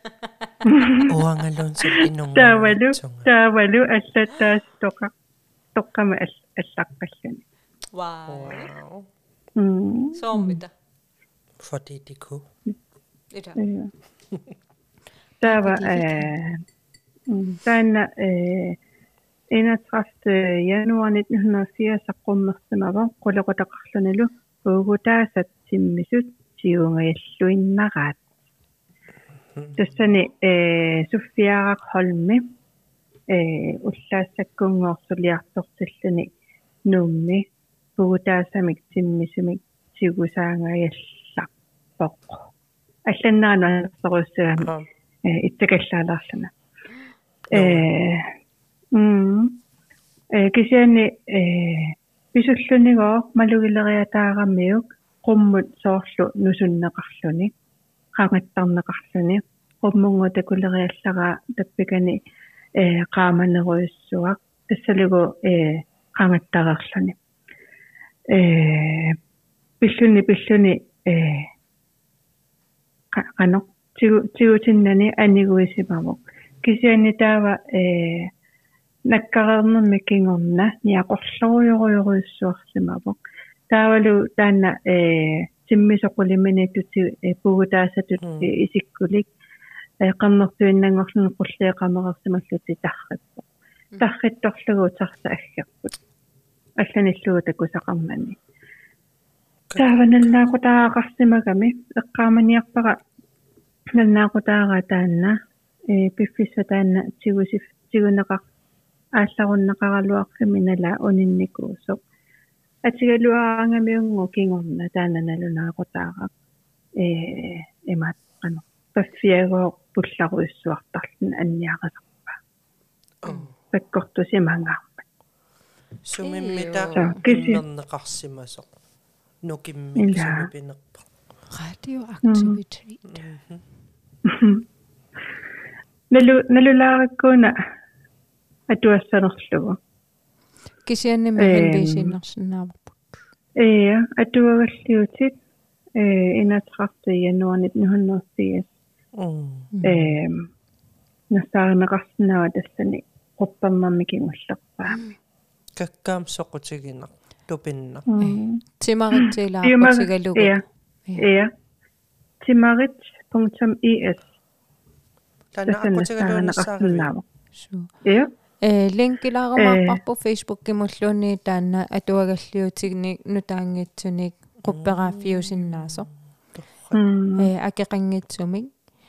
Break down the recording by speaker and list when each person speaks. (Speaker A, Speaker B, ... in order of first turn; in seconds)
Speaker A: 0.6-1.1, 1.8-5.1, 5.7-7.4, 9.6-10.6, 13.6-13.9, 15.4-16.6, 17.3-18.8, 19.5-28.2, 29.8-32.4, 33.3-36.3, 36.9-37.5, 38.0-42.4, 43.0-44.7, 45.2-46.5, 47.5-48.3, 48.9-49.6, 50.3-57.5, 58.1-62.2, 62.8-67.2, 68.3-69.2, 69.8-71.5, 73.1-78.3, 79.1-83.2, 83.7-89.3, 90.0-93.4, 94.0-96.0, 96.8-98.4, 99.8-103.0, 103.9-105.3, 105.9-108.4, 109.2-112.0, 112.8-116.3, 117.0-122.4, 123.7-124.9, 126.9-127.6, 130.0-130.5, 132.2-132.6, 134.2-134.6, 136.1-137.6, 138.7-139.8, 141.4-142.2, 143.6-145.3, 145.9-148.7, 149.8-150.5, 151.3-155.0, 158.1-158.6, 159.2-160.6, 161.2-161.5, 162.4-164.2, 165.7-167.2, 168.0-168.3, 169.6-170.0, 176.9-177.5
Speaker B: 1.1-3.3, 8.3-9.1, 11.6-12.4, 29.5-30.0, 44.6-44.9, 47.5-47.9, 88.2-88.5, 99.7-100.3, 123.2-123.5, 126.0-128.7, 129.4-131.1, 133.0-133.6, 149.2-149.7, 155.8-158.0, 165.5-167.1, 174.6-177.0
Speaker C: 7.9-8.7, 10.1-10.7, 13.3-13.6, 15.4-16.3, 126.2-127.2, 131.5-133.0, 140.8-143.2, 149.7-150.1, 158.2-161.2, 167.6-167.9, 168.6-176.1, 177.4-178.7